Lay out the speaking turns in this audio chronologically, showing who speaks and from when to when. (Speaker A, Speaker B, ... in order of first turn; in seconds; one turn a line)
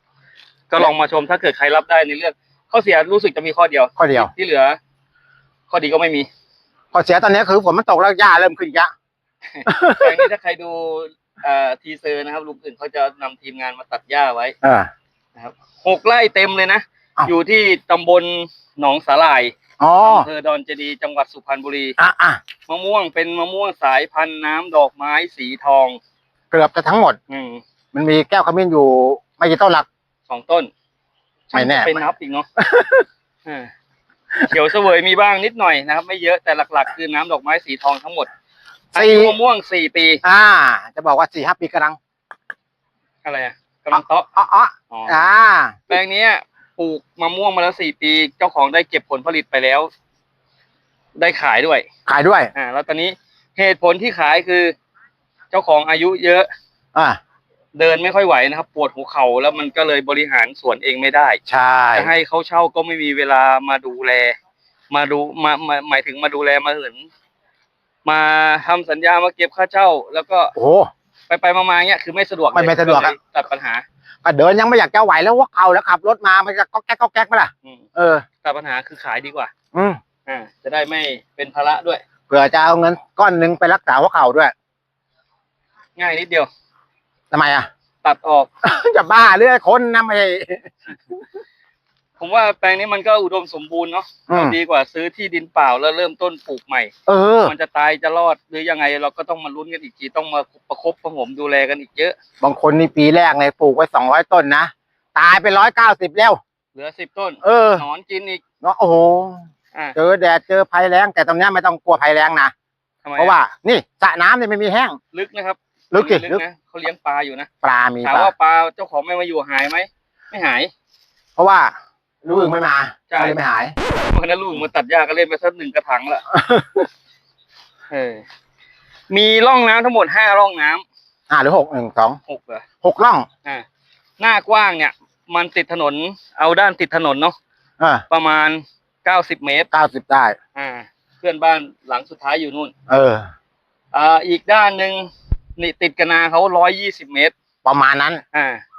Speaker A: 0.7-4.8
Speaker B: 4.0-4.3
Speaker A: 5.7-6.3
Speaker B: 6.9-8.9
Speaker A: 9.6-14.5
Speaker B: 9.7-10.2
Speaker B: 14.6-14.9
Speaker A: 15.3-21.9
Speaker B: 19.8-20.3
Speaker B: 22.0-22.4
Speaker A: 22.7-26.0
Speaker B: 26.5-27.2
Speaker A: 27.3-27.6
Speaker B: 27.9-29.9
Speaker A: 30.3-30.7
Speaker A: 31.5-32.5
Speaker B: 31.5-32.0
Speaker B: 32.6-33.0
Speaker A: 33.5-33.7
Speaker A: 34.5-38.3
Speaker A: 38.9-40.2
Speaker B: 38.9-39.3
Speaker B: 40.2-42.0
Speaker A: 43.2-44.3
Speaker B: 43.9-45.8
Speaker A: 44.9-45.3
Speaker A: 45.9-49.9
Speaker A: 51.1-51.9
Speaker B: 52.1-52.5
Speaker A: 52.5-54.7
Speaker A: 55.5-56.5
Speaker A: 57.7-61.4
Speaker B: 61.5-62.1
Speaker A: 61.9-64.3
Speaker A: 64.9-67.1
Speaker A: 68.0-70.5
Speaker B: 70.5-70.9
Speaker A: 71.3-73.8
Speaker B: 72.5-73.1
Speaker B: 74.2-78.2
Speaker A: 78.4-79.5
Speaker B: 79.7-80.0
Speaker A: 80.2-82.0
Speaker B: 82.3-84.5
Speaker A: 86.0-86.5
Speaker B: 87.3-87.7
Speaker A: 88.0-88.5
Speaker B: 88.6-90.7
Speaker A: 92.2-96.9
Speaker B: 94.3-94.6
Speaker B: 97.1-97.5
Speaker A: 97.5-102.2
Speaker B: 102.4-106.4
Speaker A: 106.7-108.4
Speaker B: 107.4-107.8
Speaker B: 108.6-109.4
Speaker B: 110.0-112.5
Speaker A: 113.0-113.3
Speaker B: 113.2-115.0
Speaker A: 115.1-117.5
Speaker B: 115.9-116.4
Speaker B: 117.6-118.3
Speaker A: 118.0-120.7
Speaker B: 121.4-123.7
Speaker A: 123.1-123.4
Speaker A: 124.1-126.2
Speaker B: 126.3-126.9
Speaker A: 127.9-128.2
Speaker A: 129.1-130.8
Speaker B: 131.3-132.2
Speaker A: 132.3-132.6
Speaker B: 132.8-133.3
Speaker A: 134.2-137.3
Speaker B: 137.8-138.0
Speaker A: 138.1-139.7
Speaker B: 139.7-140.3
Speaker A: 140.5-142.7
Speaker B: 142.9-143.3
Speaker A: 143.9-147.3
Speaker B: 147.6-148.2
Speaker A: 148.3-148.6